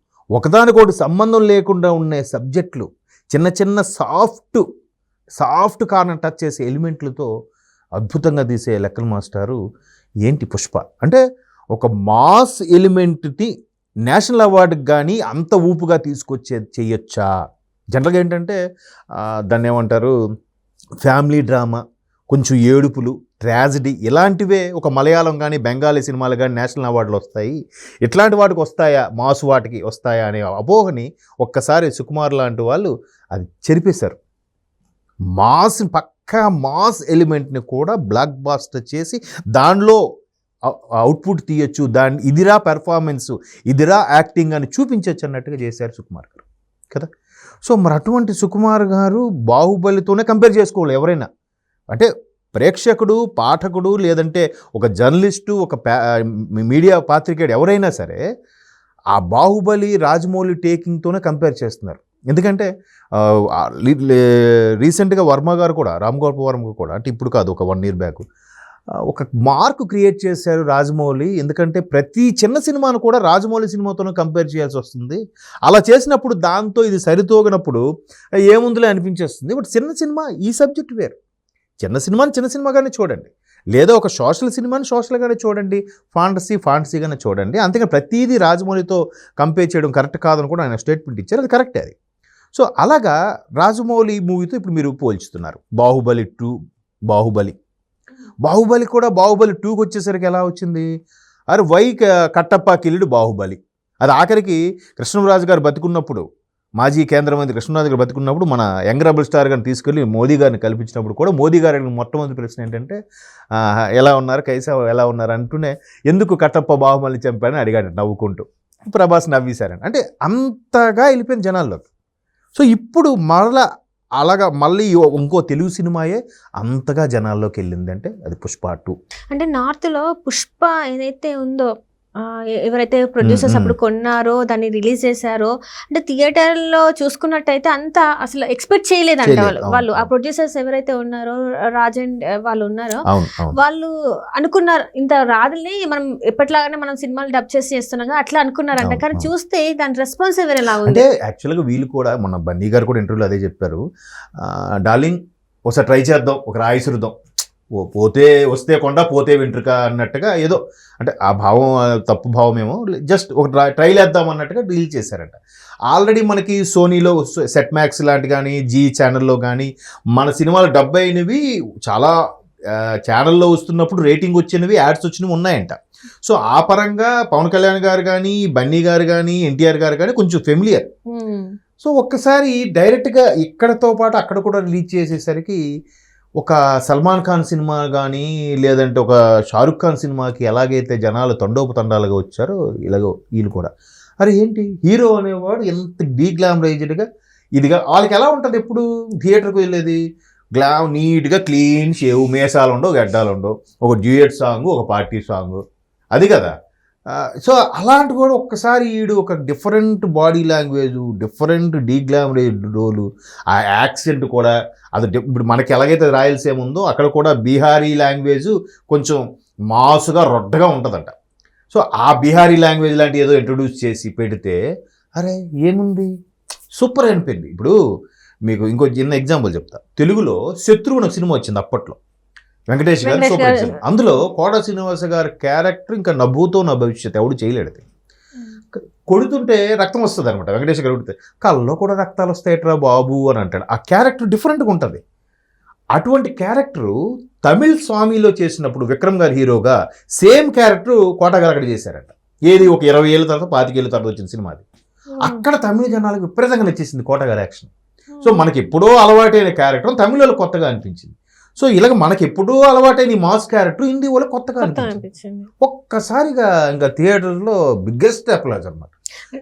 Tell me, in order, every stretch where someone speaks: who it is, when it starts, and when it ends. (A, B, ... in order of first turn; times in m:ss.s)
0:00.4-0:04.6 A
0:05.4-0:07.3 A
0:08.0-0:09.6 A
0:10.3-0:11.2 A
0:11.7-0:13.5 A
0:14.1-0:17.3 A
0:17.9-0:18.6 A
0:19.2-0:20.1 A
0:21.0-0:34.2 A
0:35.4-0:40.0 A
0:40.7-0:47.1 A
0:47.6-0:51.3 A
0:51.9-0:58.2 A
0:59.1-1:02.7 A
1:03.2-1:04.2 A
1:04.8-1:08.2 A
1:09.1-1:17.8 A
1:18.5-1:21.2 A
1:21.8-1:32.0 A
1:32.5-1:36.5 A
1:37.1-1:37.6 A
1:38.4-1:40.9 A
1:41.5-1:46.2 A
1:46.8-1:53.0 A
1:54.0-2:01.8 A
2:02.6-2:03.6 A
2:04.2-2:09.0 A
2:09.3-2:11.7 B
2:12.2-2:23.0 B
2:13.2-2:13.7 A
2:19.2-2:20.1 A
2:23.1-2:23.6 A
2:23.6-2:31.0 B
2:28.8-2:29.3 A
2:30.8-2:33.8 A
2:34.4-2:37.1 A
2:37.8-2:52.1 A
2:53.1-3:00.8 A
3:01.1-3:01.5 B
3:01.8-3:05.6 A
3:06.4-3:17.1 A
3:17.6-3:20.0 A
3:20.6-3:25.6 A
3:26.1-3:26.5 A
3:27.1-3:41.1 A
3:41.7-3:44.6 A
3:45.2-3:46.1 A
3:46.8-3:47.7 A
3:48.5-3:52.0 A
3:52.7-3:57.8 A
3:53.0-3:53.8 B
3:59.1-4:05.0 A
4:06.0-4:14.6 A
4:15.2-4:15.4 B
4:15.2-4:17.7 A
4:18.1-4:18.4 B
4:18.2-4:25.0 A
4:24.6-4:25.5 B
4:25.6-4:28.9 A